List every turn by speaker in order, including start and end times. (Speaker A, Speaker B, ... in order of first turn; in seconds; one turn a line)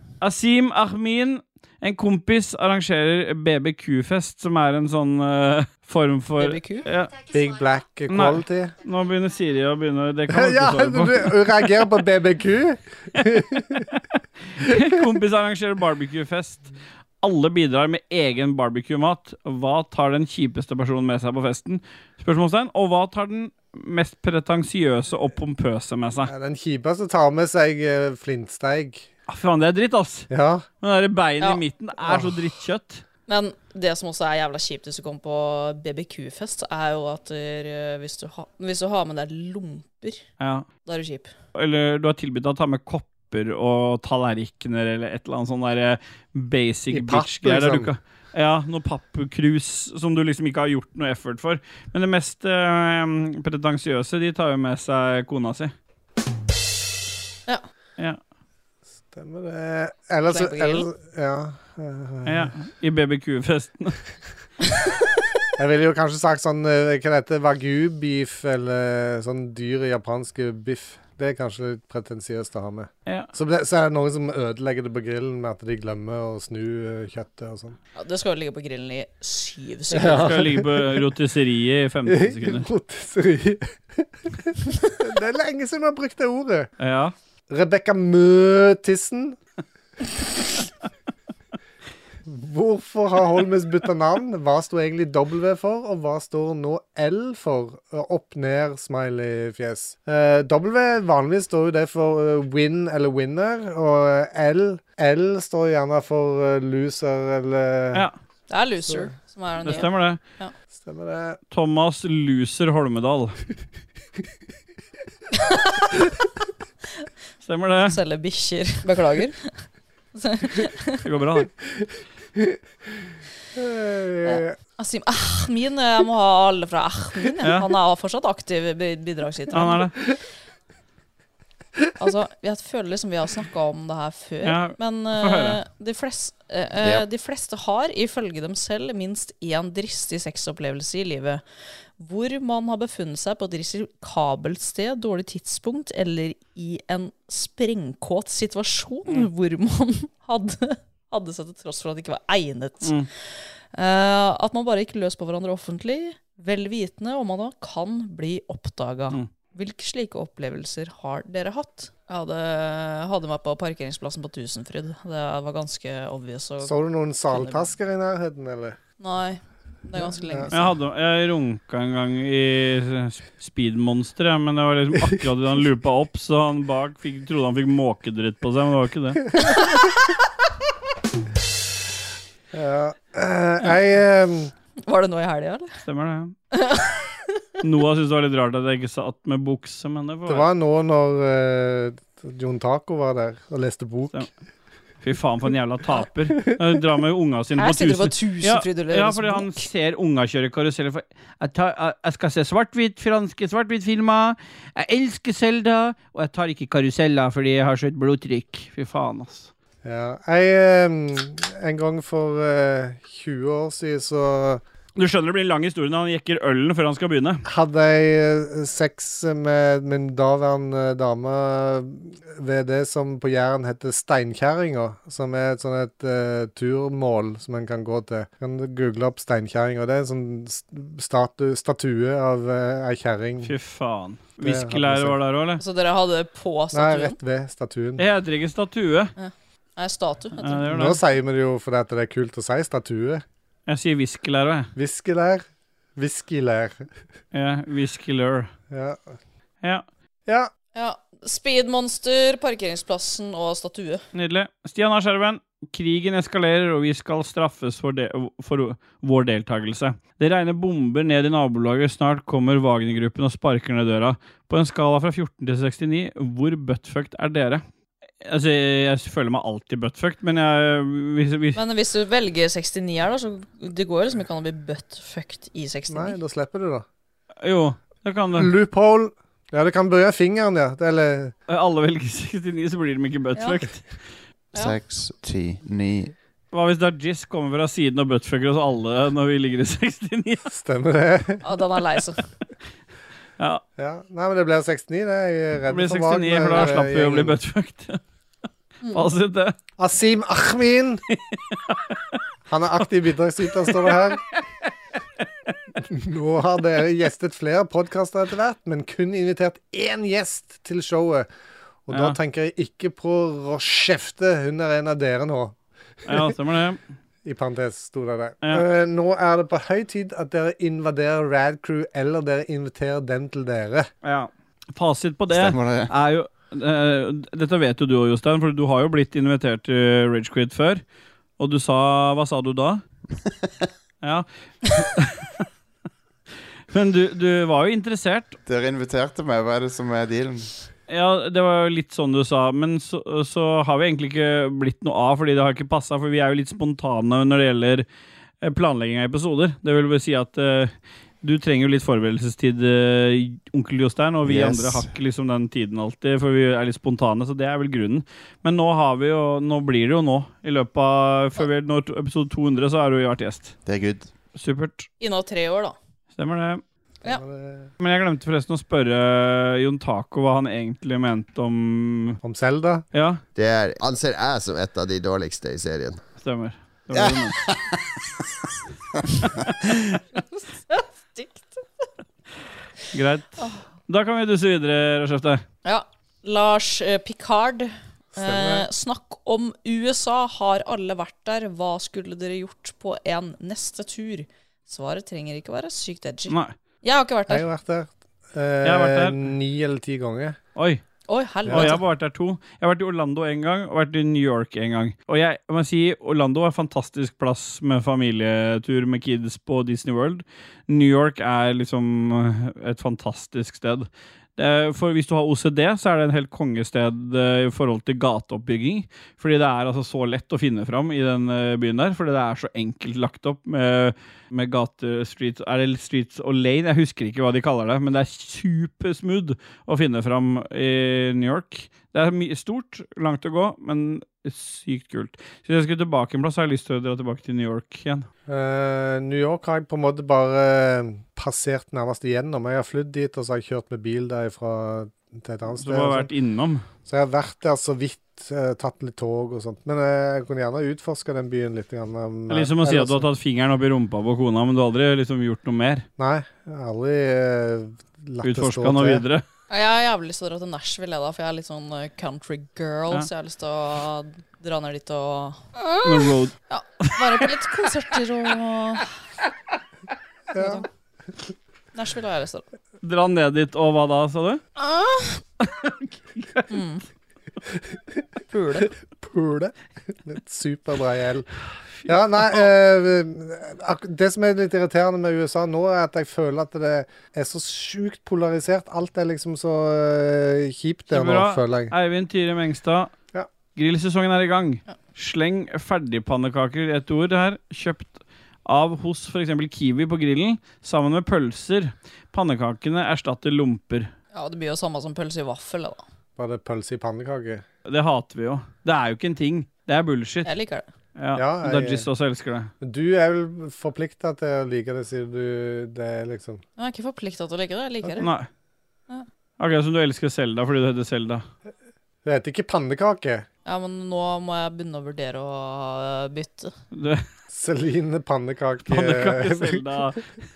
Speaker A: 0.2-7.2
Speaker B: 6.4-6.9
Speaker C: 7.3-8.8
Speaker A: 8.1-11.4
Speaker C: 10.3-13.9
Speaker A: 13.8-26.3
Speaker C: 26.2-29.1
Speaker A: 29.3-30.3
Speaker C: 30.3-30.6
Speaker A: 30.8-33.0
Speaker C: 32.0-32.4
Speaker B: 33.3-40.2
Speaker A: 40.4-40.7
Speaker B: 40.9-41.3
Speaker A: 41.5-55.7
Speaker C: 46.9-47.9
Speaker C: 59.1-62.5
Speaker B: 60.3-60.9
Speaker A: 62.2-64.0
Speaker C: 65.6-77.8
Speaker B: 78.0-80.4
Speaker C: 79.9-81.0
Speaker A: 80.1-82.7
Speaker C: 82.1-86.7
Speaker A: 86.8-87.1
Speaker C: 87.5-89.4
Speaker C: 92.2-108.1
Speaker B: 108.5-110.5
Speaker A: 109.7-110.2
Speaker C: 110.7-111.4
Speaker A: 111.5-113.4
Speaker B: 115.4-116.1
Speaker A: 117.4-118.0
Speaker B: 117.9-119.6
Speaker B: 120.2-121.0
Speaker A: 121.0-121.5
Speaker C: 123.5-124.5
Speaker B: 124.2-130.2
Speaker A: 129.5-129.9
Speaker B: 132.0-141.4
Speaker A: 134.4-135.6
Speaker B: 142.0-166.8
Speaker A: 152.8-153.1
Speaker C: 166.6-168.8
Speaker B: 167.3-167.7
Speaker B: 169.0-170.7
Speaker C: 170.0-170.5
Speaker A: 170.5-179.2
Speaker C: 182.5-184.5
Speaker B: 184.8-185.8
Speaker A: 185.8-186.3
Speaker B: 186.5-187.4
Speaker A: 187.6-190.5
Speaker C: 190.3-194.3
Speaker A: 195.0-209.5
Speaker B: 197.6-199.7
Speaker C: 209.8-214.6
Speaker A: 215.0-217.4
Speaker C: 217.4-233.5
Speaker A: 233.4-235.6
Speaker C: 234.4-235.2
Speaker B: 235.6-237.2
Speaker C: 236.7-238.1
Speaker A: 238.0-239.1
Speaker B: 239.2-240.7
Speaker A: 240.4-241.0
Speaker C: 240.7-243.2
Speaker A: 243.7-244.7
Speaker C: 244.8-245.4
Speaker C: 246.0-246.9
Speaker A: 247.3-248.5
Speaker C: 248.7-249.1
Speaker B: 250.8-254.0
Speaker A: 254.1-267.6
Speaker A: 268.2-271.6
Speaker B: 271.6-276.2
Speaker C: 275.9-276.9
Speaker A: 277.4-278.5
Speaker C: 278.3-281.3
Speaker A: 281.5-283.8
Speaker D: 284.5-286.1
Speaker A: 286.5-290.5
Speaker C: 290.5-291.4
Speaker B: 291.4-292.2
Speaker C: 293.8-297.4
Speaker A: 295.7-298.0
Speaker B: 298.8-299.1
Speaker A: 298.9-299.6
Speaker C: 299.8-301.0
Speaker A: 301.1-301.9
Speaker C: 302.5-304.2
Speaker A: 303.6-304.1
Speaker C: 305.8-311.3
Speaker C: 311.9-315.6
Speaker A: 311.9-312.2
Speaker A: 316.1-316.8
Speaker C: 317.2-323.9
Speaker A: 324.0-330.8
Speaker D: 325.3-325.9
Speaker A: 331.4-332.8
Speaker A: 334.0-335.5
Speaker A: 336.7-338.4
Speaker D: 338.5-340.5
Speaker A: 340.9-347.9
Speaker A: 348.4-350.7
Speaker A: 351.2-363.6
Speaker D: 354.2-354.9
Speaker D: 363.7-364.1
Speaker A: 364.4-364.9
Speaker B: 365.0-365.8
Speaker A: 366.2-366.6
Speaker C: 367.0-367.7
Speaker A: 367.8-372.2
Speaker C: 372.2-372.9
Speaker A: 372.9-373.2
Speaker E: 373.4-376.0
Speaker A: 376.2-377.6
Speaker A: 379.2-379.5
Speaker B: 380.2-381.6
Speaker A: 382.9-385.4
Speaker B: 385.6-397.4
Speaker C: 388.1-388.7
Speaker A: 396.3-396.6
Speaker C: 397.3-400.4
Speaker A: 398.6-399.3
Speaker A: 400.6-400.8
Speaker B: 401.1-401.8
Speaker C: 401.5-401.7
Speaker A: 401.5-438.1
Speaker C: 438.3-446.1
Speaker A: 445.6-446.6
Speaker C: 446.9-453.1
Speaker A: 452.3-455.9
Speaker C: 456.0-459.0
Speaker A: 458.2-459.2
Speaker B: 459.5-468.9
Speaker A: 465.8-466.3
Speaker C: 470.3-470.6
Speaker B: 470.4-470.6
Speaker B: 471.7-472.5
Speaker A: 472.8-474.4
Speaker B: 474.6-475.2
Speaker A: 475.4-476.5
Speaker B: 476.5-476.8
Speaker B: 478.3-478.7
Speaker C: 478.6-481.3
Speaker C: 481.9-491.7
Speaker A: 490.9-492.9
Speaker A: 493.6-503.9
Speaker B: 504.1-505.8
Speaker C: 506.2-507.4
Speaker A: 507.7-510.3
Speaker B: 510.2-510.7
Speaker A: 511.0-512.5
Speaker C: 511.2-511.9
Speaker C: 512.6-516.4
Speaker B: 516.6-518.1
Speaker A: 518.0-518.3
Speaker A: 519.4-521.2
Speaker C: 522.0-523.3
Speaker B: 523.5-526.5
Speaker A: 526.7-527.0
Speaker C: 527.3-529.6
Speaker A: 528.7-530.0